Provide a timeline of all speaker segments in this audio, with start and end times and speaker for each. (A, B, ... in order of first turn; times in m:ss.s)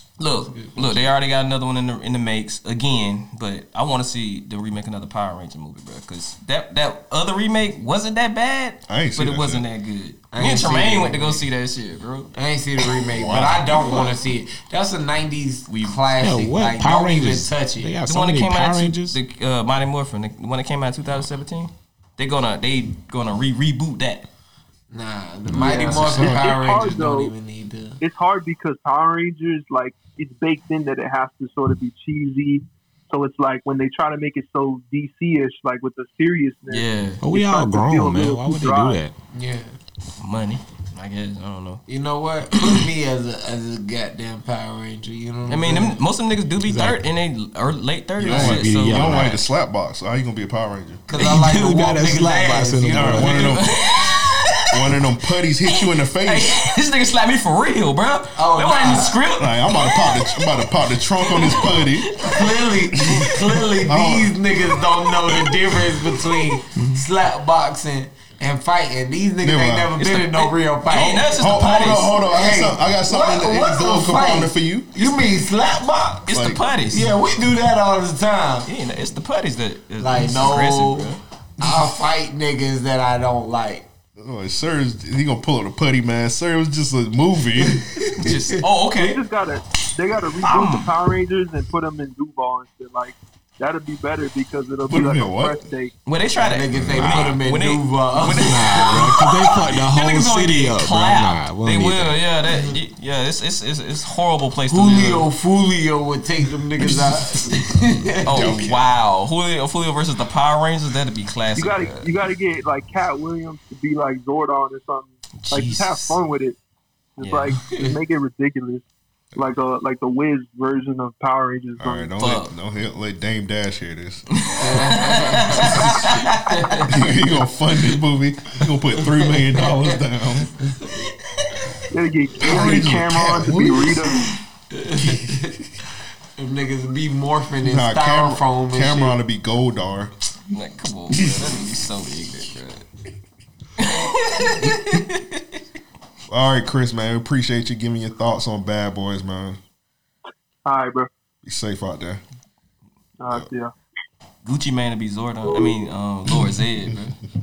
0:00.2-0:12.3 A
0:00.4-0:01.1 B
0:08.9-0:09.6 C
0:10.3-0:11.4 B
0:12.3-0:17.9 B
0:13.0-0:14.1 C
0:16.2-0:19.2 D
0:18.0-0:24.2 A
0:24.9-0:28.0 B
0:25.5-0:26.4 D
0:25.6-0:27.3 E
0:28.0-0:39.0 E
0:36.7-0:37.2 A
0:37.2-0:39.1 D
0:39.3-0:39.8 B
0:40.2-0:41.8 A
0:41.9-0:46.0 B
0:45.5-0:49.4 A
0:46.6-0:47.0 D
0:48.2-0:51.0 C
0:48.2-0:49.4 D
0:51.1-0:53.3 B
0:51.2-0:53.5 D
0:52.9-0:53.7 C
0:53.2-0:54.8 A
0:54.7-0:56.6 C
0:55.7-1:00.6 A
0:58.3-0:59.2 B
0:59.4-1:02.1 C
1:01.2-1:02.5 A
1:02.2-1:11.3 B
1:03.8-1:04.4 C
1:09.4-1:10.0 C
1:10.0-1:12.2 A
1:11.4-1:15.1 C
1:12.2-1:16.2 B
1:16.3-1:17.1 A
1:16.3-1:16.6 C
1:16.9-1:18.7 B
1:18.6-1:21.2 A
1:20.0-1:23.8 B
1:24.2-1:27.9 C
1:28.1-1:29.2 A
1:28.9-1:35.9 E
1:30.4-1:30.9 A
1:34.9-1:35.6 C
1:36.0-1:45.3 A
1:36.4-1:38.9 B
1:36.7-1:37.1 C
1:36.9-1:37.4 D
1:38.3-1:42.2 D
1:42.5-1:42.7 B
1:44.7-1:48.3 B
1:48.2-1:52.1 A
1:48.3-1:48.9 C
1:51.6-1:56.6 E
1:55.4-1:56.2 A
1:57.2-2:02.1 E
1:57.2-1:57.6 A
1:57.7-1:58.0 B
2:01.8-2:04.2 C
2:02.2-2:02.5 A
2:04.4-2:06.9 A
2:04.6-2:06.9 B
2:05.6-2:06.2 C
2:06.9-2:10.7 C
2:11.9-2:14.3 E
2:12.4-2:14.2 C
2:14.8-2:15.5 B
2:16.4-2:19.2 B
2:17.6-2:20.1 C
2:20.5-2:22.8 A
2:23.8-2:25.4 A
2:26.3-2:29.6 C
2:30.6-2:31.1 E
2:31.4-2:32.2 C
2:33.2-2:33.7 E
2:34.4-2:37.2 A